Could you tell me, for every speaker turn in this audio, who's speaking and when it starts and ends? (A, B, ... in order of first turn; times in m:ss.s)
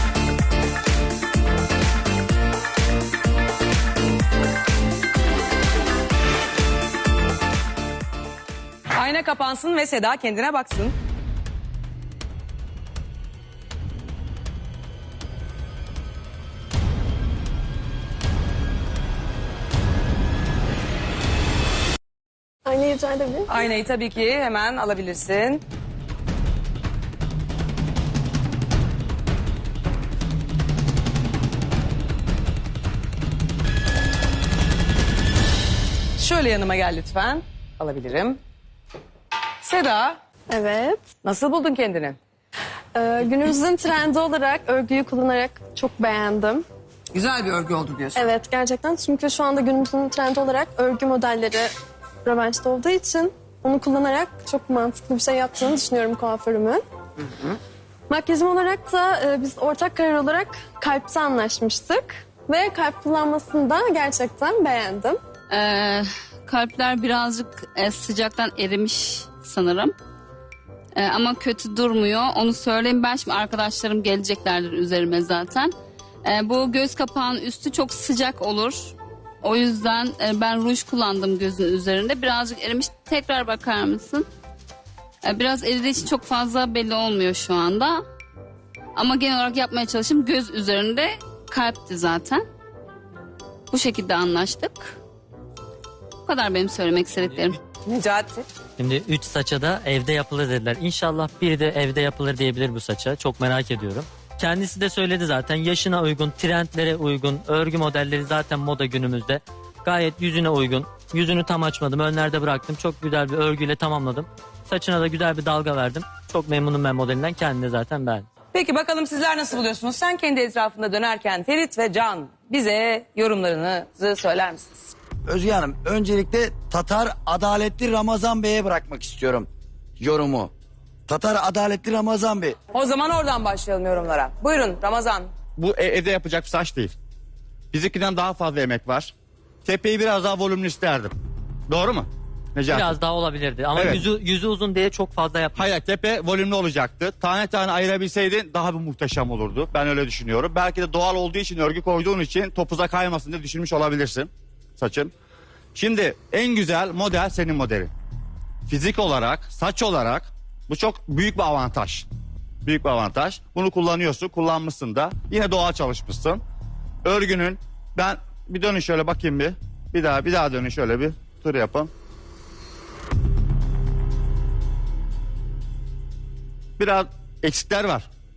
0:08.9-0:11.0 A
0:22.6-0:23.7 B
0:23.5-0:25.6 A
0:36.2-0:38.4 A
0:39.6-0:40.2 A
0:40.5-0:41.0 B
0:41.2-0:42.2 A
0:43.0-0:46.6 B
0:47.1-0:48.3 A
0:48.2-0:51.7 B
0:52.2-0:56.8 B
0:58.1-1:05.2 B
1:05.5-1:10.0 C
1:11.0-1:24.3 C
1:25.2-1:28.0 C
1:29.0-1:32.4 C
1:33.7-1:35.0 C
1:36.2-1:37.6 C
1:37.8-1:38.5 A
1:38.8-1:58.3 D
1:58.5-2:04.9 A
2:05.3-2:09.5 E
2:10.0-2:10.5 E
2:11.1-2:12.6 E
2:12.7-2:15.3 A
2:15.6-2:16.9 F
2:17.7-2:19.1 F
2:19.6-2:21.1 F
2:21.7-2:22.9 F
2:22.7-2:25.7 D
2:23.8-2:24.0 F
2:25.6-2:35.1 F
2:35.8-2:37.9 F
2:38.7-2:42.1 F
2:42.6-2:46.4 F
2:47.0-2:51.9 F
2:56.8-2:58.1 F